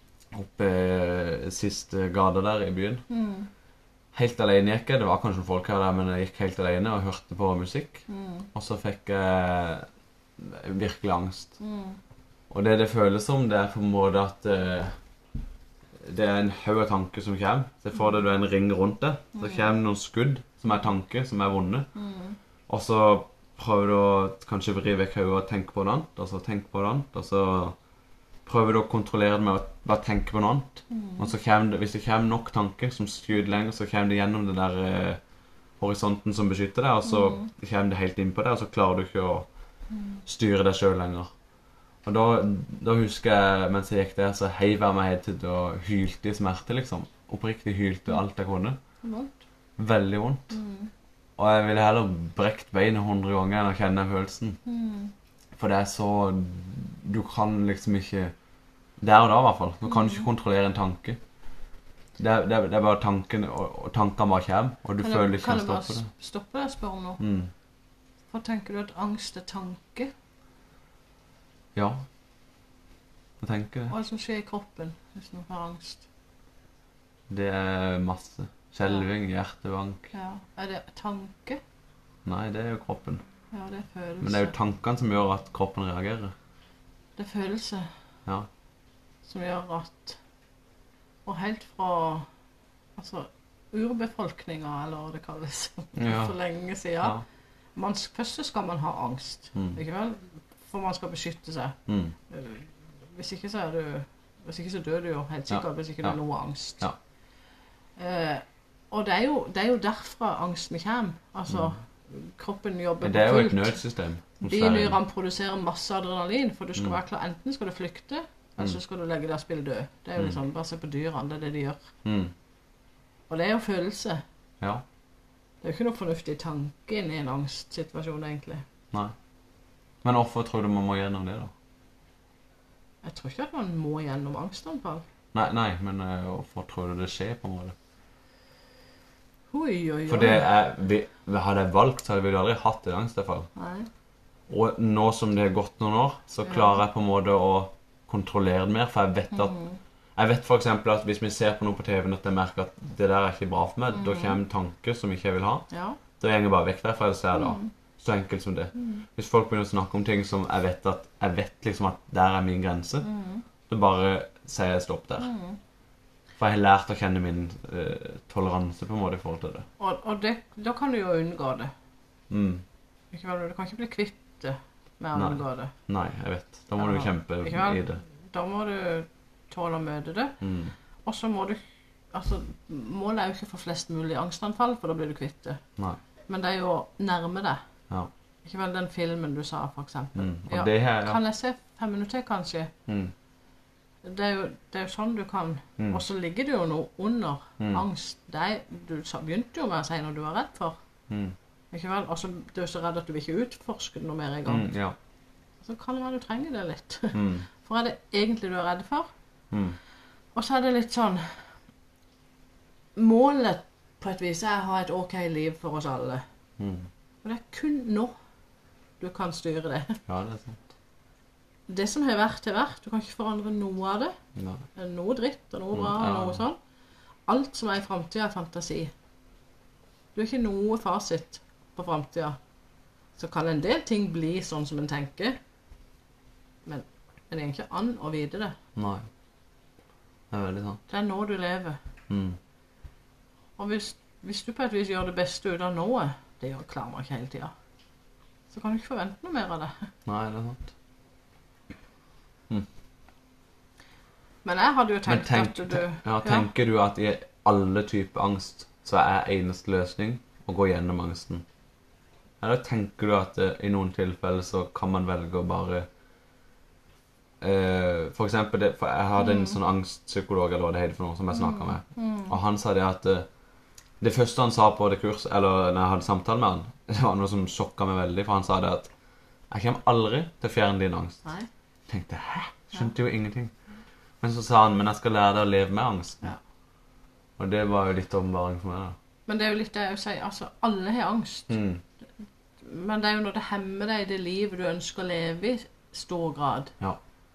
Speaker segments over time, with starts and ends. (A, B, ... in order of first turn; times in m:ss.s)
0:00.3-0:03.0 A
0:03.1-0:03.5 B
0:04.1-0:09.9 A
0:08.1-0:08.5 B
0:10.4-0:11.5 A
0:11.6-0:12.0 B
0:12.5-0:14.9 A
0:16.0-0:21.9 A
0:19.4-0:19.7 B
0:21.9-0:22.4 B
0:22.7-0:27.8 A
0:28.4-0:35.2 A
0:30.9-0:31.3 B
0:35.8-0:39.5 A
0:37.1-0:37.5 B
0:39.9-0:40.2 B
0:40.2-0:41.3 A
0:42.0-0:48.8 A
0:49.0-0:49.3 B
0:49.8-0:50.6 A
0:50.5-0:50.9 B
0:51.4-0:54.6 A
0:54.6-0:55.1 B
0:55.5-0:58.3 A
0:59.0-1:01.2 A
1:02.2-1:06.1 A
1:05.0-1:07.2 B
1:07.2-1:07.5 A
1:08.3-1:10.1 B
1:11.7-1:12.0 A
1:13.4-1:13.9 A
1:13.9-1:16.0 B
1:17.3-1:20.1 A
1:20.1-1:21.6 B
1:22.2-1:23.2 A
1:23.5-1:24.5 B
1:24.2-1:26.3 A
1:27.2-1:27.9 B
1:29.2-1:30.2 B
1:31.2-1:32.3 B
1:33.0-1:37.2 B
1:36.0-1:36.3 A
1:37.8-1:41.8 B
1:41.9-1:42.1 A
1:42.3-1:46.9 B
1:45.5-1:46.2 A
1:48.0-1:53.8 B
1:51.5-1:51.7 A
1:53.0-1:55.0 A
1:54.4-2:01.8 B
2:02.0-2:02.3 A
2:03.3-2:04.2 B
2:05.6-2:08.6 B
2:10.0-2:11.5 A
2:13.0-2:15.0 B
2:15.3-2:17.8 A
2:19.5-2:20.5 B
2:20.1-2:23.5 A
2:23.6-2:23.9 B
2:24.5-2:29.5 A
2:26.5-2:26.8 B
2:29.3-2:29.8 B
2:30.2-2:35.7 A
2:33.9-2:34.4 B
2:35.7-2:36.0 B
2:36.2-2:43.1 A
2:37.3-2:37.7 B
2:38.7-2:39.0 B
2:43.0-2:43.4 B
2:43.7-2:45.3 A
2:45.2-2:45.6 B
2:46.4-2:49.6 A
2:49.8-2:51.7 B
2:52.3-2:52.6 A
2:53.1-2:55.7 B
2:55.1-2:58.0 A
2:56.8-3:00.4 B
3:00.4-3:00.7 A
3:01.0-3:01.6 B
3:02.1-3:05.6 B
3:06.3-3:07.6 B
3:08.4-3:12.7 B
3:10.1-3:11.2 A
3:12.9-3:13.1 A
3:14.0-3:20.8 B
3:21.1-3:21.3 A
3:21.7-3:24.7 B
3:24.4-3:25.0 A
3:25.6-3:29.1 B
3:27.1-3:27.4 A
3:29.5-3:29.8 A
3:30.3-3:31.3 B
3:33.0-3:36.2 B
3:36.6-3:36.9 A
3:37.2-3:38.1 B
3:39.0-3:40.0 B
3:40.1-3:40.6 A
3:41.7-3:44.2 B
3:44.4-3:44.6 A
3:44.8-3:46.6 B
3:45.7-3:46.4 A
3:47.3-3:48.9 B
3:50.1-3:52.4 B
3:53.2-3:55.4 B
3:56.6-3:58.6 B
3:58.8-3:59.0 A
4:00.3-4:00.8 A
4:00.9-4:01.8 B
4:02.1-4:02.4 A
4:03.6-4:07.5 B
4:08.5-4:09.9 B
4:10.0-4:10.7 A
4:14.4-4:16.5 B
4:15.1-4:21.4 A
4:22.4-4:25.9 A
4:27.4-4:33.3 A
4:29.2-4:29.6 B
4:31.3-4:32.4 B
4:34.0-4:38.9 A
4:39.5-4:41.2 A
4:41.9-4:43.5 A
4:44.2-4:46.2 A
4:47.4-4:49.0 A
4:49.3-4:51.5 B
4:51.5-4:51.8 A
4:52.6-4:56.7 B